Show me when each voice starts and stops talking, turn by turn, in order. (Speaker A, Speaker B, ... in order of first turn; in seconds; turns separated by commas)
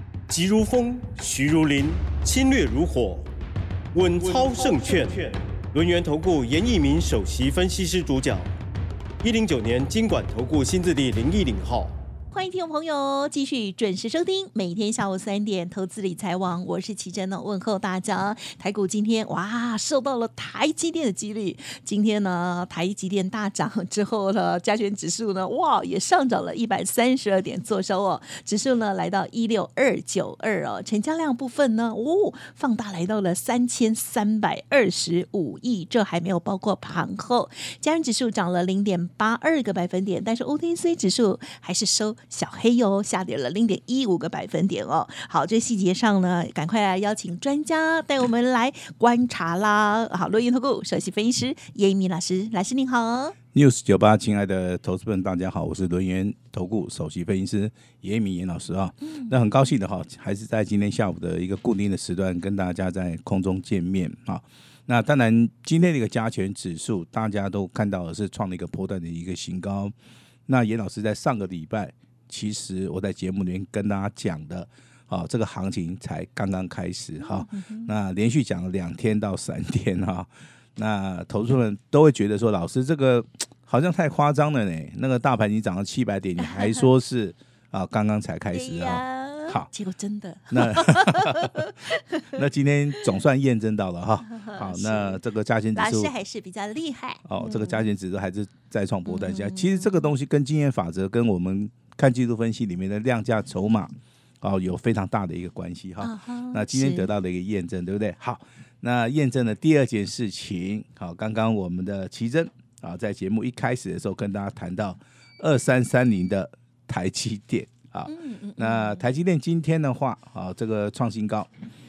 Speaker A: 0.3-3.3, Speaker A: 3.9-8.5, Speaker A: 9.2-12.0, Speaker B: 12.3-53.4, Speaker C: 53.5-69.9, Speaker C: 70.5-89.7, Speaker B: 77.2-77.9, Speaker B: 86.4-86.8, Speaker B: 88.5-92.3, Speaker C: 90.5-91.7, Speaker C: 92.3-96.1, Speaker B: 94.3-95.2, Speaker B: 95.8-97.9, Speaker C: 97.2-121.5, Speaker B: 99.1-100.1, Speaker B: 106.0-107.1, Speaker B: 118.1-119.0